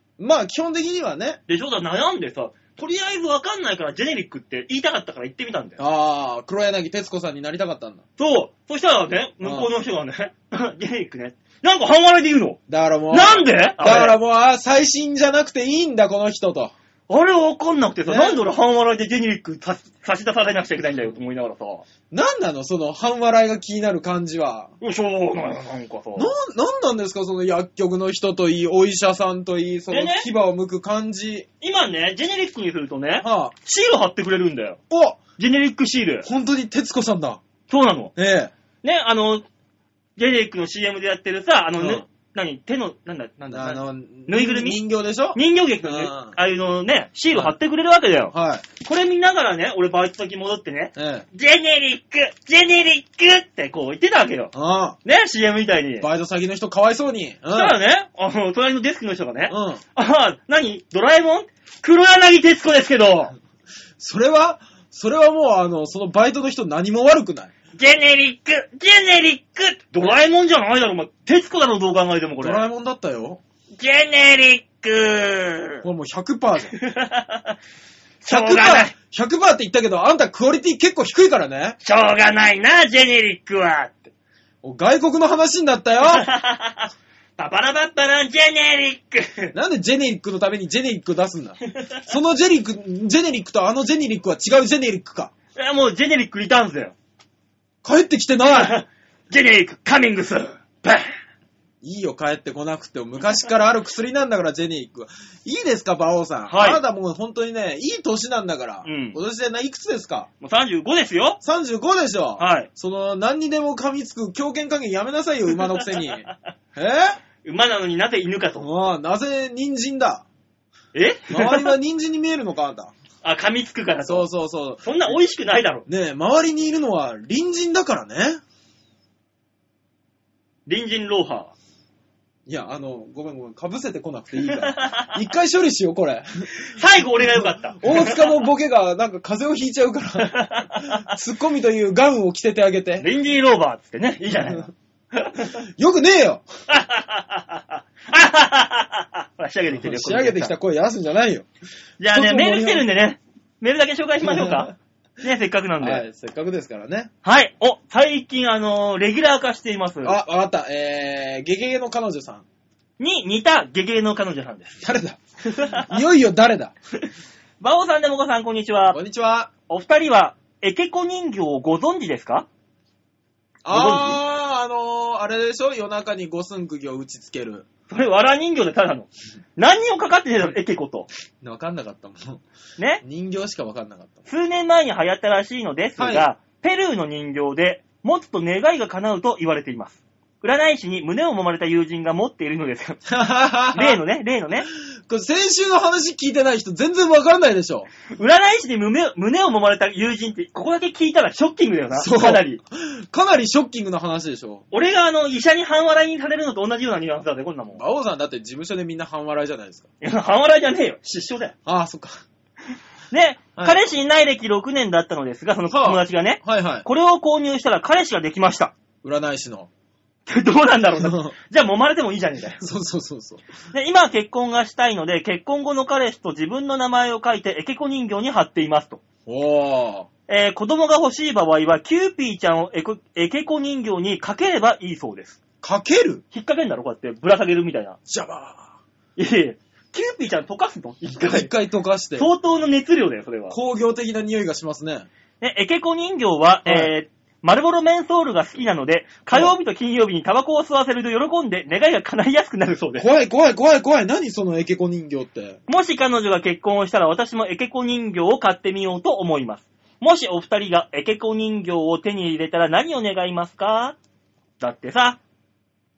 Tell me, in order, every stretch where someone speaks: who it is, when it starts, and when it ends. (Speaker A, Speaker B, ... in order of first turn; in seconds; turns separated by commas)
Speaker A: 0.2-1.4, Speaker B: 1.5-5.8, Speaker A: 5.8-8.0, Speaker B: 8.2-12.6, Speaker A: 9.4-9.7, Speaker A: 12.7-16.7, Speaker B: 13.1-14.2, Speaker B: 17.1-21.9, Speaker A: 18.1-18.4, Speaker A: 22.1-24.7, Speaker B: 24.8-26.3, Speaker A: 26.1-31.5, Speaker B: 29.9-30.3, Speaker B: 31.6-34.8, Speaker A: 33.2-33.5, Speaker A: 34.9-35.2, Speaker B: 35.4-36.2, Speaker A: 36.2-37.4, Speaker B: 37.7-38.1, Speaker A: 38.1-38.5, Speaker B: 38.8-39.4, Speaker B: 40.2-44.8, Speaker A: 41.8-42.0, Speaker A: 43.5-46.4, Speaker B: 45.3-54.5, Speaker A: 48.3-48.6, Speaker A: 51.0-51.2, Speaker A: 54.5-55.0, Speaker B: 55.0-56.0, Speaker A: 56.0-57.8, Speaker B: 57.5-63.3, Speaker A: 59.5-59.8, Speaker A: 64.0-67.5, Speaker B: 67.8-72.6, Speaker A: 72.4-73.4, Speaker B: 73.8-75.8, Speaker A: 75.8-76.8, Speaker B: 76.7-77.5, Speaker B: 78.2-78.9, Speaker A: 78.3-81.8, Speaker B: 81.8-84.1, Speaker A: 84.6-86.3, Speaker B: 86.0-89.5, Speaker A: 89.5-95.3, Speaker B: 95.5-96.9, Speaker A: 97.8-98.8, Speaker B: 98.5-101.1, Speaker A: 101.8-110.3, Speaker B: 106.5-106.8, Speaker B: 108.8-109.2, Speaker B: 110.4-111.4, Speaker A: 111.4-117.2, Speaker B: 112.4-112.7, Speaker B: 115.7-116.3, Speaker B: 117.4-118.7, Speaker A: 118.5-120.2, Speaker B: 120.9-121.7, Speaker A: 121.3-122.9, Speaker B: 123.2-124.3, Speaker A: 124.0-125.2, Speaker B: 124.8-125.8, Speaker A: 125.9-128.4, Speaker B: 130.7-131.5, Speaker A: 132.5-136.5, Speaker B: 134.6-135.1, Speaker B: 136.6-138.3, Speaker A: 137.3-143.1, Speaker B: 140.2-141.1, Speaker B: 143.0-145.6, Speaker A: 144.3-144.7, Speaker A: 145.6-146.4, Speaker B: 146.7-150.5, Speaker A: 149.7-151.5, Speaker B: 152.0-156.0, Speaker A: 152.1-152.9, Speaker A: 154.2-154.7, Speaker A: 155.8-157.1, Speaker B: 157.2-160.2, Speaker A: 160.0-162.4, Speaker B: 163.0-164.8, Speaker A: 164.8-166.8, Speaker B: 165.4-165.9, Speaker B: 167.6-169.0, Speaker A: 168.9-169.5, Speaker B: 169.7-172.5, Speaker A: 173.6-177.7, Speaker B: 173.7-174.2, Speaker B: 177.9-181.1, Speaker A: 181.4-182.4, Speaker B: 182.8-183.0, Speaker A: 183.0-184.2, Speaker B: 184.3-193.0, Speaker A: 186.0-186.3, Speaker A: 193.1-194.0, Speaker B: 193.7-194.7, Speaker A: 195.1-197.9, Speaker B: 198.1-202.6, Speaker A: 201.9-204.7, Speaker B: 204.7-207.8, Speaker A: 207.8-209.9, Speaker B: 210.0-211.5, Speaker A: 211.7-212.2, Speaker B: 213.1-218.7, Speaker A: 215.7-216.8, Speaker A: 219.0-219.7, Speaker B: 220.3-222.6, Speaker A: 221.0-221.3, Speaker A: 222.6-223.4, Speaker B: 223.7-229.0, Speaker A: 229.2-230.1, Speaker B: 230.3-235.4, Speaker A: 235.6-236.2, Speaker B: 236.3-238.0, Speaker A: 238.1-238.8, Speaker B: 239.2-241.5, Speaker A: 241.1-242.3, Speaker B: 242.2-243.6, Speaker A: 243.5-245.1, Speaker B: 245.4-253.1, Speaker A: 246.6-246.9, Speaker A: 252.9-255.6, Speaker B: 255.7-264.0, Speaker B: 264.6-265.2